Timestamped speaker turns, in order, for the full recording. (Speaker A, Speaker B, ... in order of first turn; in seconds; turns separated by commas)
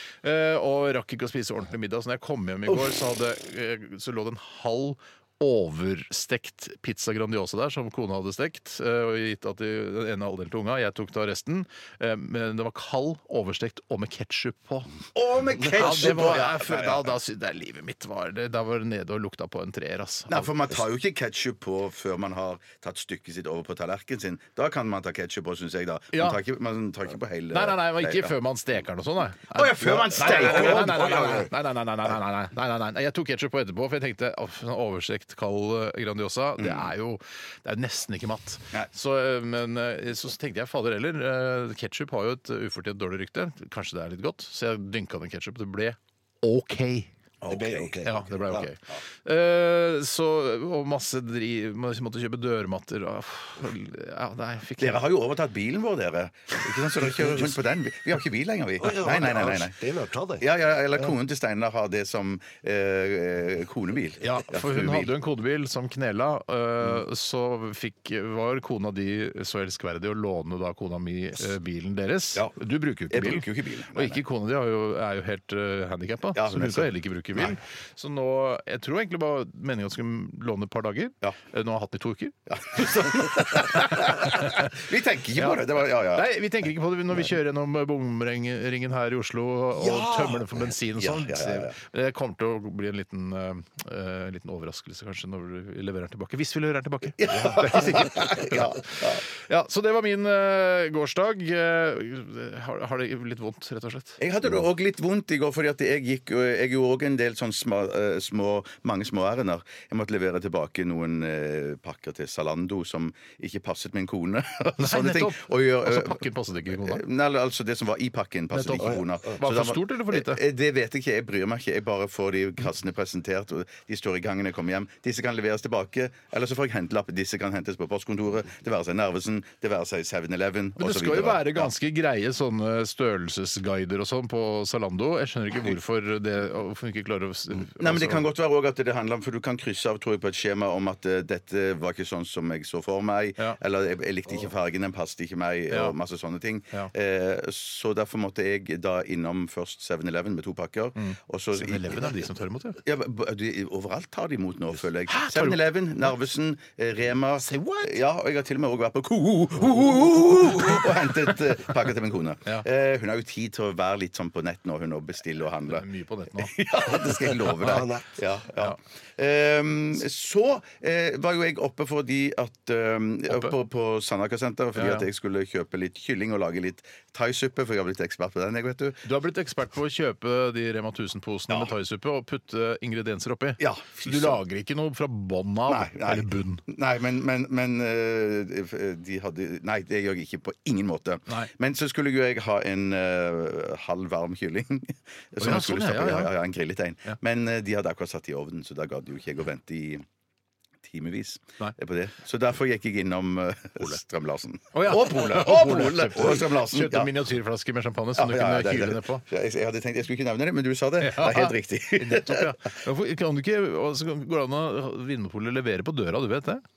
Speaker A: 0.2-14.9, Speaker B: 15.1-17.1, Speaker A: 15.7-20.5, Speaker B: 20.3-28.3, Speaker A: 26.1-26.4, Speaker A: 27.5-47.1, Speaker B: 29.5-30.9, Speaker C: 29.8-31.5, Speaker B: 36.6-36.9, Speaker B: 47.4-47.9, Speaker C: 47.5-48.7, Speaker A: 48.0-55.0, Speaker B: 54.8-59.8, Speaker C: 57.2-57.6, Speaker C: 58.8-61.1, Speaker B: 60.4-65.1, Speaker A: 64.2-83.0, Speaker B: 73.1-74.2, Speaker B: 76.3-77.5, Speaker B: 82.5-86.3, Speaker A: 83.6-84.7, Speaker A: 86.1-98.6, Speaker B: 89.8-91.8, Speaker B: 97.2-99.2, Speaker C: 97.3-98.0, Speaker A: 99.4-104.2, Speaker B: 104.2-131.7, Speaker A: 114.8-117.0, Speaker A: 118.5-120.4, Speaker C: 118.8-119.3, Speaker A: 130.8-138.2, Speaker B: 137.8-152.1, Speaker A: 151.0-152.8, Speaker B: 152.8-165.9, Speaker A: 155.1-155.6, Speaker A: 157.4-158.0, Speaker A: 160.6-160.8, Speaker A: 165.7-166.5, Speaker B: 166.4-179.0, Speaker C: 167.5-168.1, Speaker A: 173.3-173.5, Speaker A: 174.8-175.1, Speaker A: 179.1-186.6, Speaker B: 183.6-184.4, Speaker B: 185.7-200.0, Speaker A: 195.4-196.3, Speaker B: 200.8-207.1, Speaker A: 204.7-209.2, Speaker B: 208.2-212.5, Speaker A: 211.0-216.6